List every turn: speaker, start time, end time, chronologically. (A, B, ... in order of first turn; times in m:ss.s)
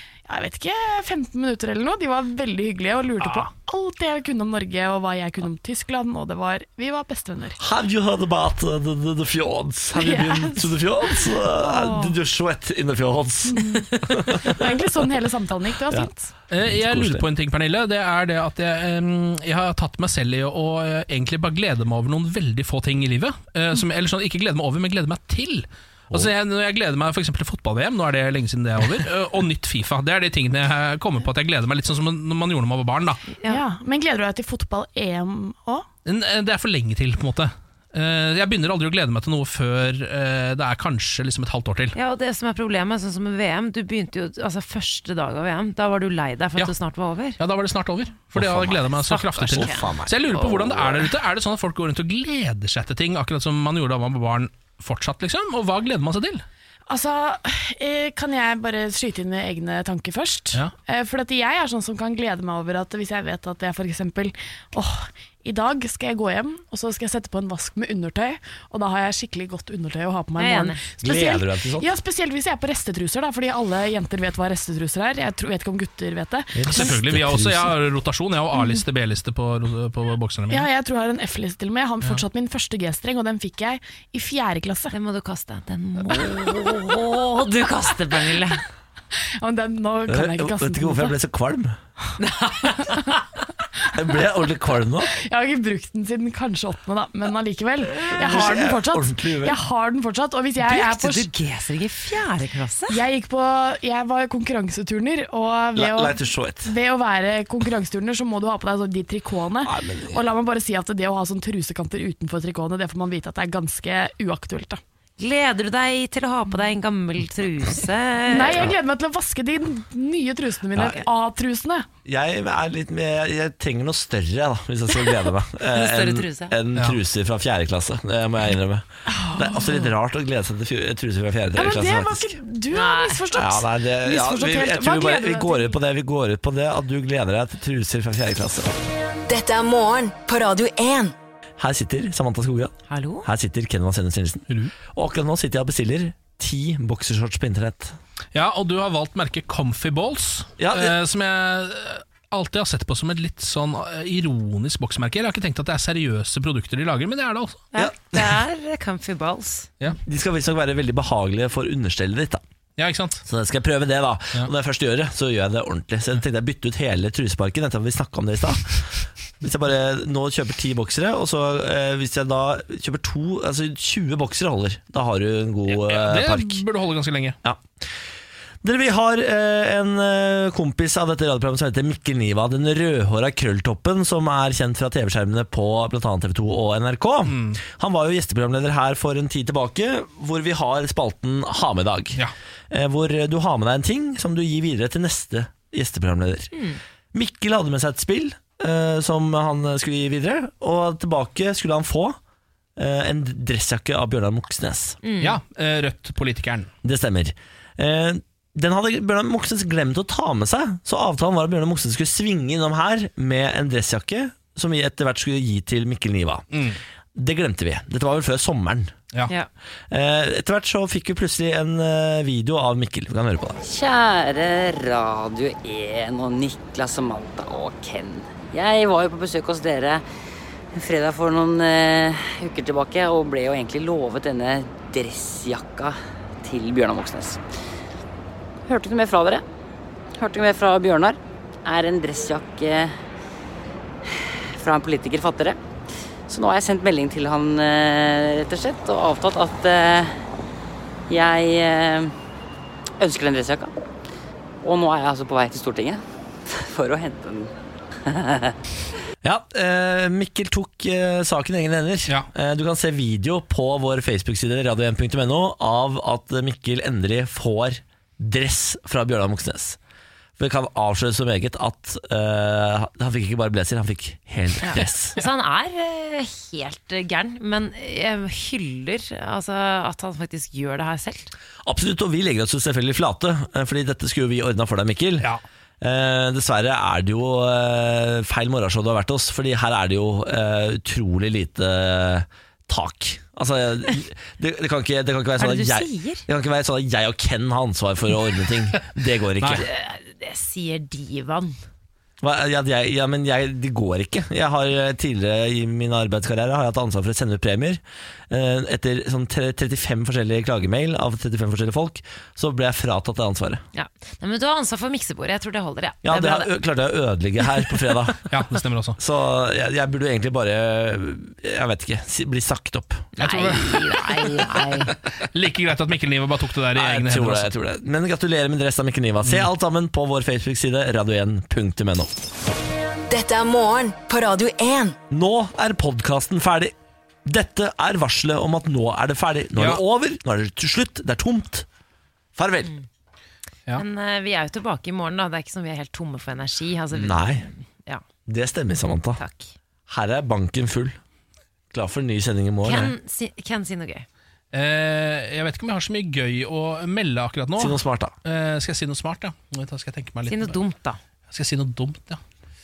0:00.2-0:07.6 A
0:07.6-0:14.6 B
0:09.9-0:12.1 A
0:13.5-0:16.3 A
0:16.5-0:33.2 C
0:16.6-0:17.2 B
0:33.4-0:35.8 A
0:36.0-0:42.0 C
0:41.9-0:47.4 D
0:47.4-0:56.4 C
0:48.3-0:48.9 B
0:48.8-0:50.9 D
0:49.4-0:50.7 B
0:56.9-1:17.0 A
1:10.4-1:10.8 D
1:11.0-1:11.9 B
1:16.5-1:17.7 B
1:16.7-1:20.7 C
1:18.6-1:18.8 A
1:20.5-1:24.9 A
1:24.9-1:28.6 D
1:29.4-1:31.1 A
1:30.1-1:31.8 B
1:32.2-1:33.1 D
1:33.9-1:35.1 B
1:35.2-1:41.3 A
1:38.0-1:39.6 B
1:40.6-1:43.0 D
1:42.9-1:54.8 A
1:45.8-1:46.7 B
1:49.6-1:50.2 B
1:55.2-1:58.7 D
1:58.3-2:01.9 A
2:00.8-2:01.0 B
2:02.0-2:12.3 B
2:05.7-2:06.6 D
2:09.1-2:09.6 A
2:11.5-2:15.8 A
2:12.7-2:13.2 D
2:13.3-2:18.7 B
2:19.3-2:21.1 E
2:21.6-2:28.0 B
2:22.9-2:23.3 D
2:28.3-2:37.6 C
2:30.6-2:31.0 B
2:37.7-2:39.7 D
2:37.8-2:38.4 B
2:40.0-2:42.4 B
2:42.8-2:43.2 C
2:43.2-2:48.9 B
2:49.4-2:56.6 B
2:55.7-2:57.4 C
2:57.4-2:57.7 B
2:58.6-3:16.5 B
3:07.2-3:07.6 C
3:16.5-3:16.8 D
3:17.1-3:22.2 B
3:22.8-3:25.0 B
3:25.0-3:25.4 D
3:25.2-3:26.7 C
3:26.8-3:36.4 B
3:36.5-3:36.8 C
3:37.1-3:38.9 B
3:39.9-3:43.6 B
3:43.6-3:50.0 F
3:50.7-3:57.4 F
3:58.7-3:59.4 F
4:00.2-4:03.0 F
4:04.0-4:05.6 F
4:06.3-4:10.2 F
4:11.1-4:12.1 F
4:13.0-4:13.7 F
4:14.6-4:17.5 F
4:18.0-4:18.5 F
4:19.2-4:29.8 B
4:30.4-4:35.2 B
4:34.6-4:41.3 D
4:41.6-4:45.3 B
4:45.8-4:59.7 B
4:55.4-4:56.2 D
4:59.4-4:59.6 C
4:59.4-5:01.6 D
5:02.2-5:13.6 B
5:13.7-5:16.5 D
5:16.0-5:18.2 B
5:18.3-5:19.0 C
5:19.0-5:23.1 B
5:23.2-5:27.5 C
5:23.2-5:24.9 D
5:26.7-5:32.1 B
5:33.1-5:35.0 E
5:35.1-5:36.7 B
5:37.2-5:41.6 B
5:39.6-5:39.8 C
5:42.4-5:42.7 B
5:43.7-5:48.0 D
5:46.9-5:47.4 B
5:48.3-5:49.2 B
5:49.2-5:49.5 D
5:49.9-5:51.0 B
5:51.7-5:52.9 B
5:52.6-5:54.1 D
5:54.5-6:00.6 C
5:57.6-5:58.1 B
6:00.2-6:01.0 D
6:01.3-6:02.2 C